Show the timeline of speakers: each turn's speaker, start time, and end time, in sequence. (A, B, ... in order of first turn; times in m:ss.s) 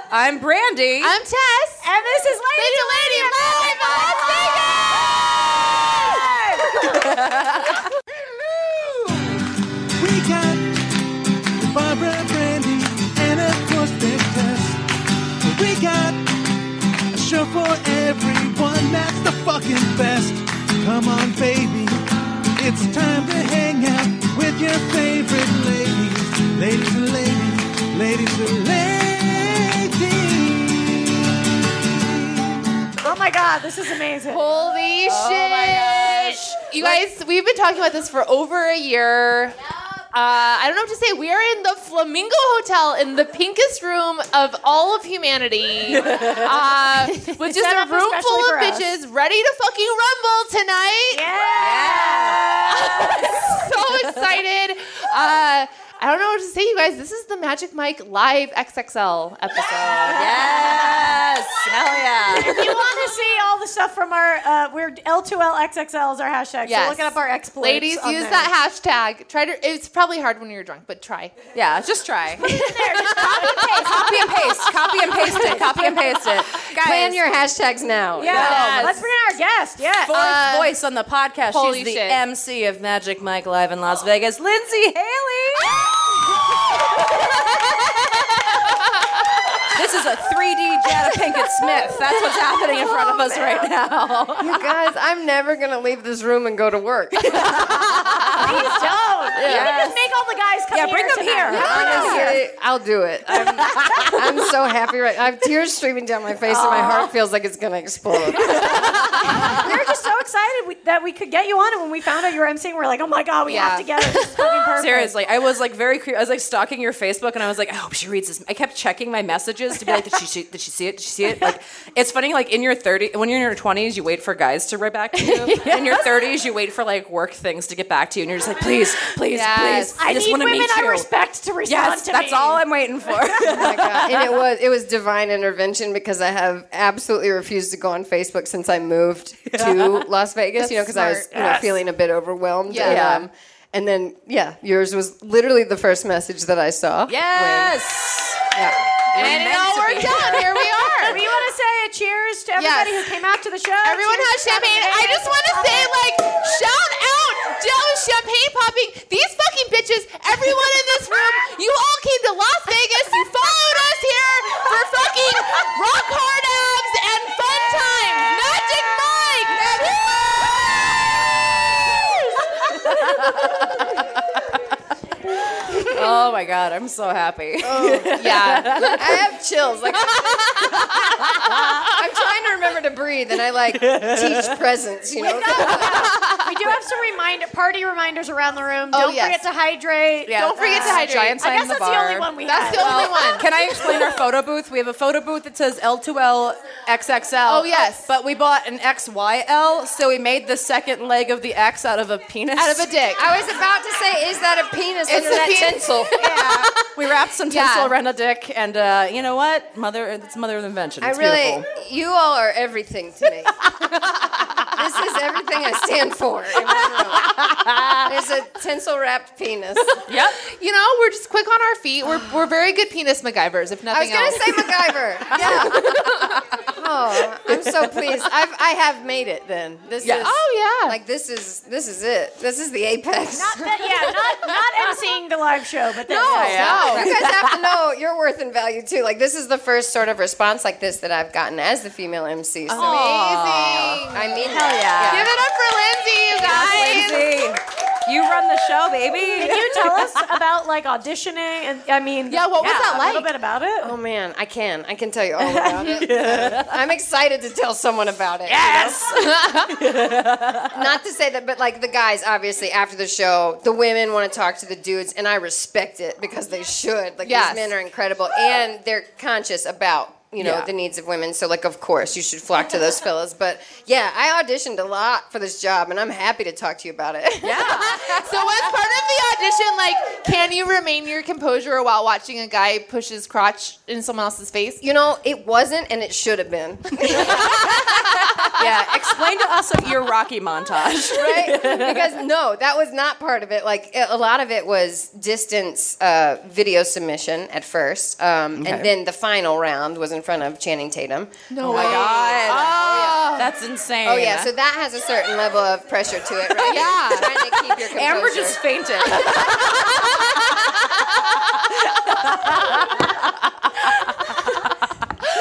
0:00.1-0:01.2 A
0:01.0-0:01.9 B
0:01.8-0:06.9 C
0:02.6-0:06.3 B
0:06.9-0:07.9 A
0:08.5-0:09.4 D
0:10.0-0:14.8 D
0:15.4-0:22.0 D
0:22.6-0:32.8 D
0:33.0-0:34.4 C
0:34.3-0:39.6 B
0:35.1-0:37.0 A
0:40.1-0:51.2 B
0:46.0-0:46.4 A
0:47.2-0:48.9 C
0:51.1-0:53.6 C
0:51.6-0:52.5 A
0:52.5-1:00.8 B
1:00.1-1:02.7 A
1:02.3-1:08.5 C
1:06.6-1:11.4 B
1:11.5-1:12.5 A
1:12.4-1:14.2 C
1:12.5-1:13.7 B
1:13.6-1:17.2 A
1:13.7-1:18.6 E
1:15.4-1:15.8 C
1:18.2-1:20.2 C
1:18.2-1:19.0 A
1:18.5-1:18.9 B
1:20.0-1:25.8 A
1:20.1-1:20.7 B
1:21.5-1:22.2 B
1:29.7-1:34.6 A
1:34.4-1:38.7 E
1:37.2-1:38.4 A
1:38.3-1:42.4 C
1:39.4-1:39.7 E
1:39.4-1:39.6 B
1:39.4-1:40.0 A
1:40.7-1:42.4 A
1:41.5-1:49.8 E
1:43.7-1:44.2 A
1:46.5-1:47.1 C
1:48.3-1:55.2 C
1:49.1-1:49.5 A
1:53.4-1:54.0 E
1:54.7-2:11.0 A
2:05.2-2:05.8 E
2:09.3-2:09.9 B
2:09.4-2:09.8 E
2:09.8-2:12.6 C
2:11.6-2:14.4 A
2:13.4-2:27.8 E
2:19.5-2:20.1 A
2:21.0-2:21.6 A
2:22.7-2:23.1 B
2:22.8-2:23.2 A
2:27.1-2:28.6 A
2:28.5-2:28.8 E
2:29.1-2:31.1 A
2:29.1-2:31.2 B
2:31.0-2:36.0 C
2:32.6-2:33.2 B
2:33.8-2:51.3 B
2:51.4-2:54.6 A
2:55.4-2:59.2 A
2:57.6-2:58.2 E
2:58.1-2:59.0 B
2:58.7-3:06.3 E
3:00.0-3:01.9 A
3:03.7-3:04.5 A
3:05.2-3:13.4 C
3:08.9-3:09.4 B
3:10.3-3:22.9 A
3:10.3-3:11.4 B
3:12.3-3:13.4 B
3:17.4-3:18.0 B
3:22.5-3:23.3 B
3:23.1-3:26.8 E
3:25.0-3:26.1 B
3:26.1-3:31.6 A
3:27.5-3:27.9 B
3:31.0-3:40.0 E
3:36.6-3:38.1 A
3:40.1-3:40.4 A
3:40.4-3:44.6 B
3:43.9-3:53.9 E
3:45.5-3:46.2 A
3:50.0-3:50.3 A
3:50.1-3:51.0 B
3:53.3-3:56.8 C
3:56.1-3:57.7 A
3:56.1-3:57.1 B
3:56.3-4:05.3 E
4:02.7-4:04.4 B
4:02.7-4:05.3 A
4:05.0-4:07.4 B
4:06.3-4:10.3 A
4:09.3-4:13.9 C
4:12.3-4:13.3 B
4:12.6-4:13.0 A
4:13.8-4:19.0 E
4:15.4-4:15.7 C
4:15.8-4:16.8 A
4:18.4-4:20.8 A
4:19.0-4:19.8 B
4:20.6-4:38.4 E
4:27.2-4:27.7 B
4:30.4-4:30.7 A
4:37.4-4:38.1 A
4:37.7-4:44.8 B
4:44.8-4:49.1 E
4:47.1-4:52.1 A
4:51.1-5:03.3 E
4:58.6-4:58.9 A
5:01.5-5:03.5 B
5:01.6-5:04.5 A
5:04.0-5:10.2 E
5:06.6-5:07.3 B
5:07.1-5:14.6 A